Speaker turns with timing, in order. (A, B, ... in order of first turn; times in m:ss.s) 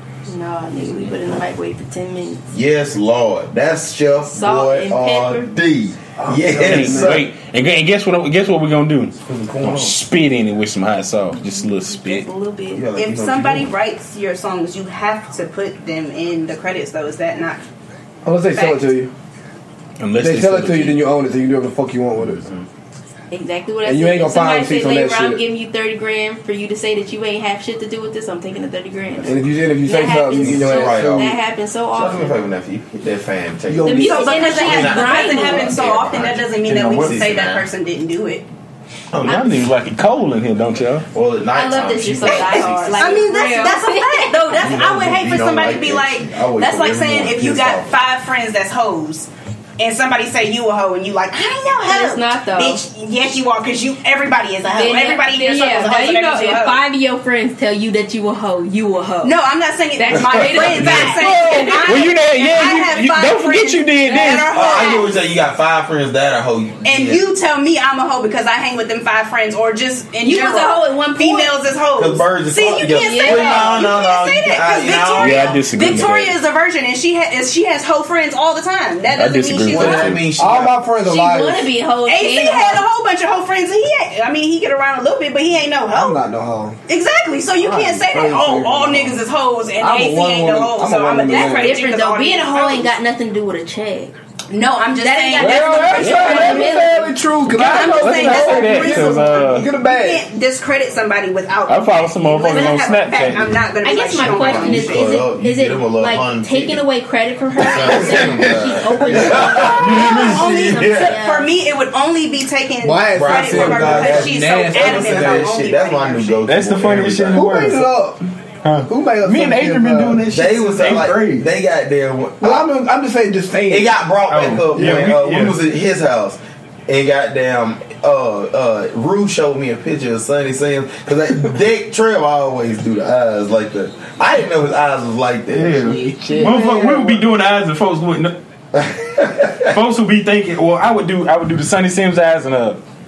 0:00.2-0:02.4 A
0:02.5-0:07.3 B
0:04.3-0:05.5 A
0:06.2-0:07.2 C
0:06.5-0:12.3 D
0:09.2-0:10.0 B
0:11.4-0:12.8 A
0:12.7-0:13.7 B
0:13.0-0:17.6 E
0:18.2-0:19.1 C
0:18.5-0:18.9 E
0:20.0-0:21.0 D
0:20.2-0:22.4 C
0:22.2-0:22.6 B
0:23.3-0:32.4 A
0:23.8-0:25.4 C
0:29.2-0:31.3 C
0:30.3-0:31.4 B
0:31.9-0:37.6 B
0:33.7-0:34.2 C
0:33.8-0:35.8 A
0:34.0-0:38.4 E
0:36.7-0:37.3 D
0:39.1-0:39.6 B
0:39.2-0:41.0 D
0:41.1-0:43.2 B
0:41.5-0:44.4 A
0:42.2-0:56.8 E
0:44.5-0:47.9 B
0:51.3-0:52.8 A
0:54.6-0:59.3 A
0:59.2-1:05.1 E
1:00.0-1:02.1 A
1:00.2-1:04.6 D
1:00.7-1:01.1 B
1:04.0-1:05.0 A
1:04.5-1:07.2 B
1:06.8-1:20.2 E
1:10.2-1:11.5 A
1:12.0-1:15.6 B
1:12.8-1:13.9 A
1:15.2-1:16.3 D
1:19.1-1:20.2 D
1:19.7-1:20.8 B
1:19.7-1:21.7 C
1:21.0-1:22.8 A
1:22.0-1:26.2 E
1:25.9-1:26.8 C
1:26.9-1:32.9 E
1:27.6-1:29.2 C
1:29.8-1:31.8 C
1:31.3-1:34.1 A
1:34.5-1:36.8 E
1:35.0-1:37.1 A
1:35.4-1:40.2 C
1:35.9-1:39.7 D
1:37.5-1:45.1 E
1:41.7-1:43.5 D
1:42.5-1:42.9 A
1:43.8-1:51.5 A
1:44.2-1:46.8 B
1:47.6-1:51.2 B
1:47.8-1:49.7 C
1:49.3-1:50.4 D
1:49.6-1:56.4 E
1:52.8-1:55.5 C
1:53.1-1:57.7 B
1:56.4-1:57.9 D
1:57.3-1:58.2 C
1:58.6-2:01.5 D
1:58.8-2:00.2 C
2:00.3-2:02.7 B
2:02.4-2:04.0 C
2:03.7-2:16.0 B
2:04.3-2:05.6 D
2:04.7-2:05.1 C
2:15.5-2:18.4 D
2:16.1-2:17.2 C
2:18.8-2:19.7 B
2:19.6-2:22.8 D